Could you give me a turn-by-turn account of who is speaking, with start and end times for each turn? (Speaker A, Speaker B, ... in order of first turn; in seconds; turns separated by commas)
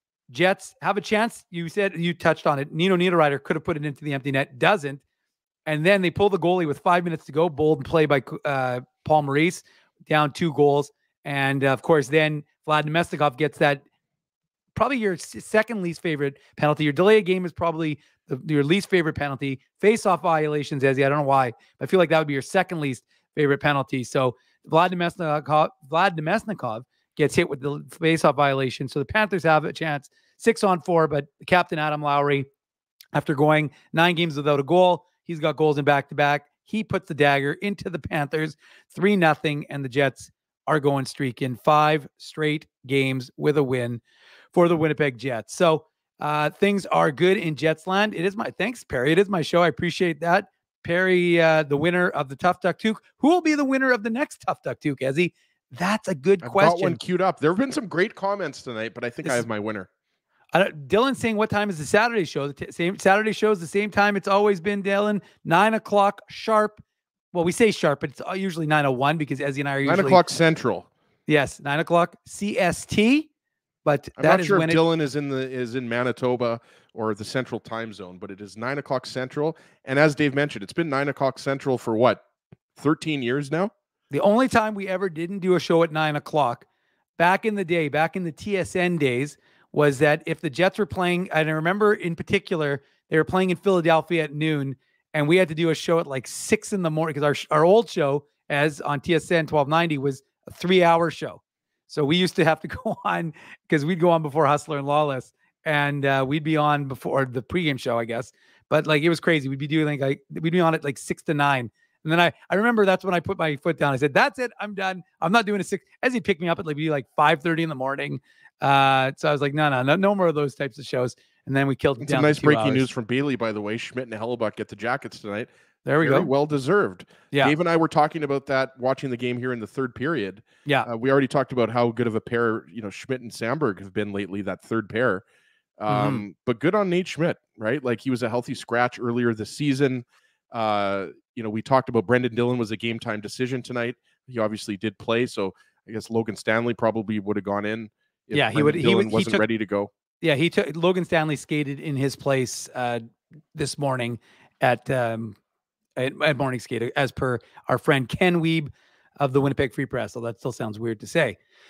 Speaker A: 0.3-5.0, Speaker A: 5.7-13.8, Speaker A: 14.8-32.5, Speaker A: 33.1-44.0, Speaker A: 44.5-57.0, Speaker B: 56.4-59.9, Speaker A: 60.5-66.8, Speaker A: 67.3-70.2, Speaker B: 69.8-70.9, Speaker A: 71.3-73.3, Speaker A: 73.8-74.8, Speaker B: 74.2-82.2, Speaker B: 82.8-83.7, Speaker A: 84.1-86.7, Speaker A: 87.2-122.9, Speaker B: 122.0-135.2, Speaker A: 125.8-126.3, Speaker B: 135.8-149.9, Speaker A: 135.9-136.2, Speaker A: 148.3-149.5, Speaker A: 150.2-155.4, Speaker A: 156.0-161.4